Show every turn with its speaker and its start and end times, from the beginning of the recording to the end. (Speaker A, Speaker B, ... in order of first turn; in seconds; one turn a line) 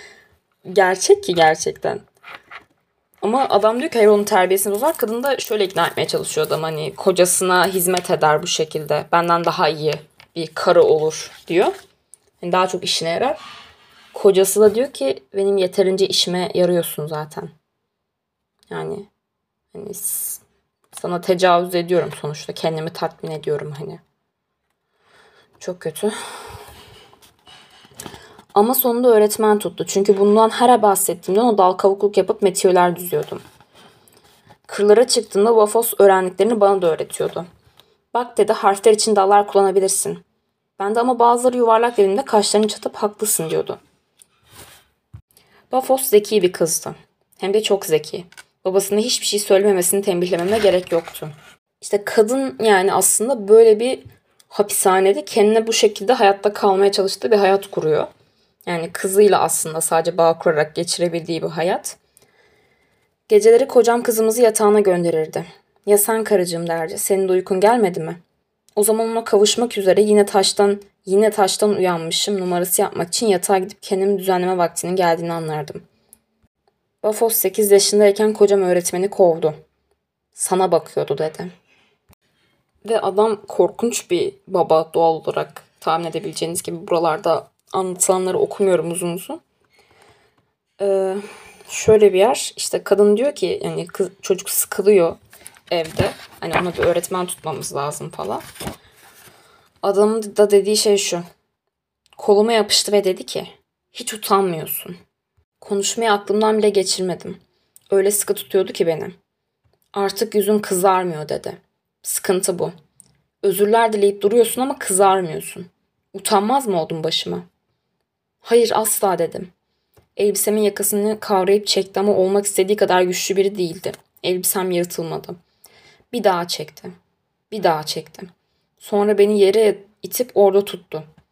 Speaker A: 0.7-2.0
Speaker A: 3.2-11.7
Speaker A: 12.4-13.4
Speaker A: 14.1-17.5
Speaker A: 18.7-19.1
Speaker A: 19.7-24.0
Speaker A: 25.6-26.1
Speaker A: 28.5-33.4
Speaker A: 34.7-37.5
Speaker A: 38.1-40.2
Speaker A: 40.8-43.8
Speaker A: 45.7-58.1
Speaker A: 58.7-62.0
Speaker A: 63.3-68.2
Speaker A: 68.8-75.9
Speaker A: 77.0-79.6
Speaker A: 80.3-81.5
Speaker A: 82.8-89.4
Speaker A: 90.8-98.4
Speaker A: 99.8-101.2
Speaker A: 102.2-105.0
Speaker A: 105.6-107.4
Speaker A: 107.9-109.2
Speaker A: 109.9-112.7
Speaker A: 113.4-117.5
Speaker A: 118.4-119.5
Speaker A: 120.2-125.4
Speaker A: 126.1-127.0
Speaker A: 127.5-131.1